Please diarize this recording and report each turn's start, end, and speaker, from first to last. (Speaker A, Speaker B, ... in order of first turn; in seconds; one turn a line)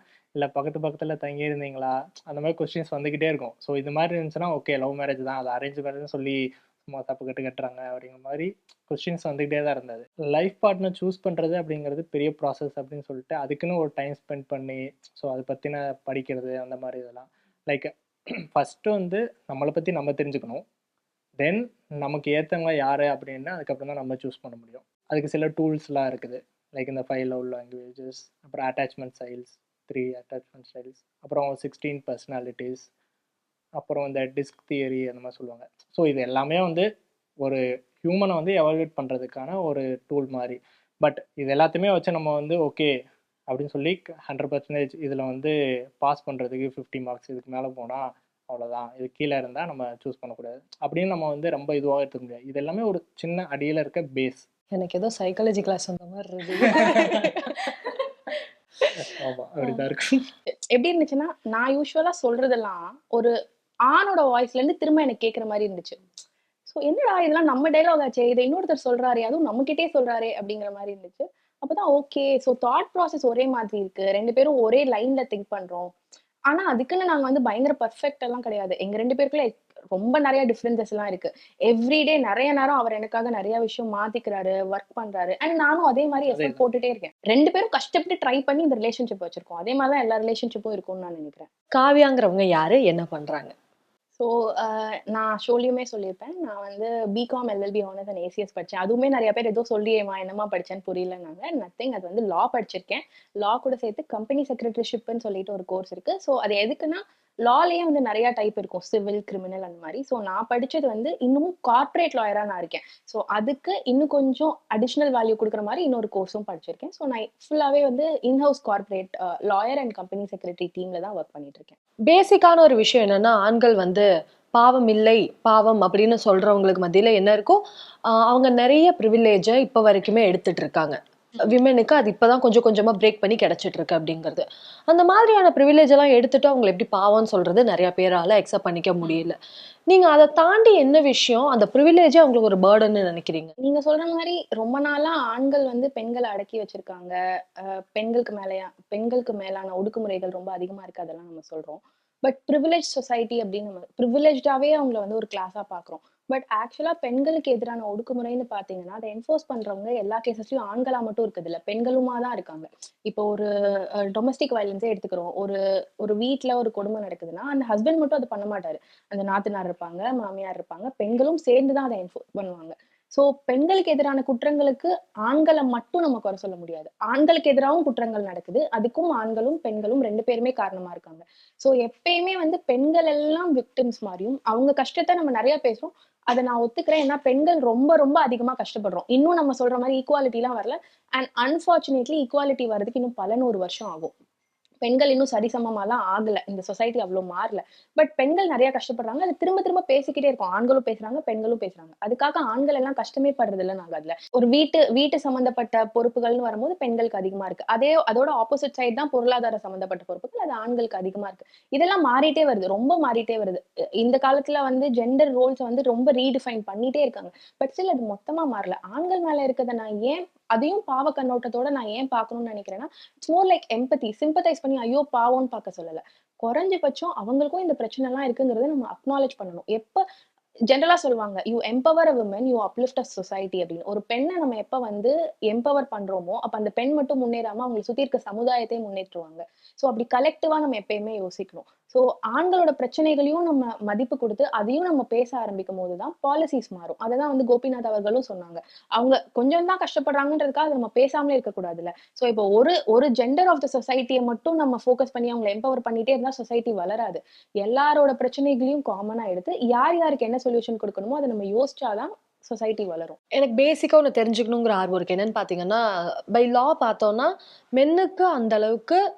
Speaker A: 0.4-17.9
Speaker A: 18.6-20.6
Speaker A: 21.4-32.9
Speaker A: 33.8-36.9
Speaker A: 37.4-42.9
Speaker A: 43.5-54.5
Speaker B: 54.7-57.7
Speaker A: 59.0-60.2
Speaker C: 60.7-63.3
Speaker C: 63.9-66.0
Speaker C: 66.7-75.9
Speaker C: 76.5-91.5
Speaker A: 86.3-86.6
Speaker B: 91.7-93.5
Speaker C: 94.2-121.7
Speaker B: 122.1-139.4
Speaker B: 139.9-143.5
Speaker C: 143.6-194.1
Speaker C: 194.8-230.0
Speaker C: 230.7-263.2
Speaker B: 263.3-265.8
Speaker B: 266.3-269.0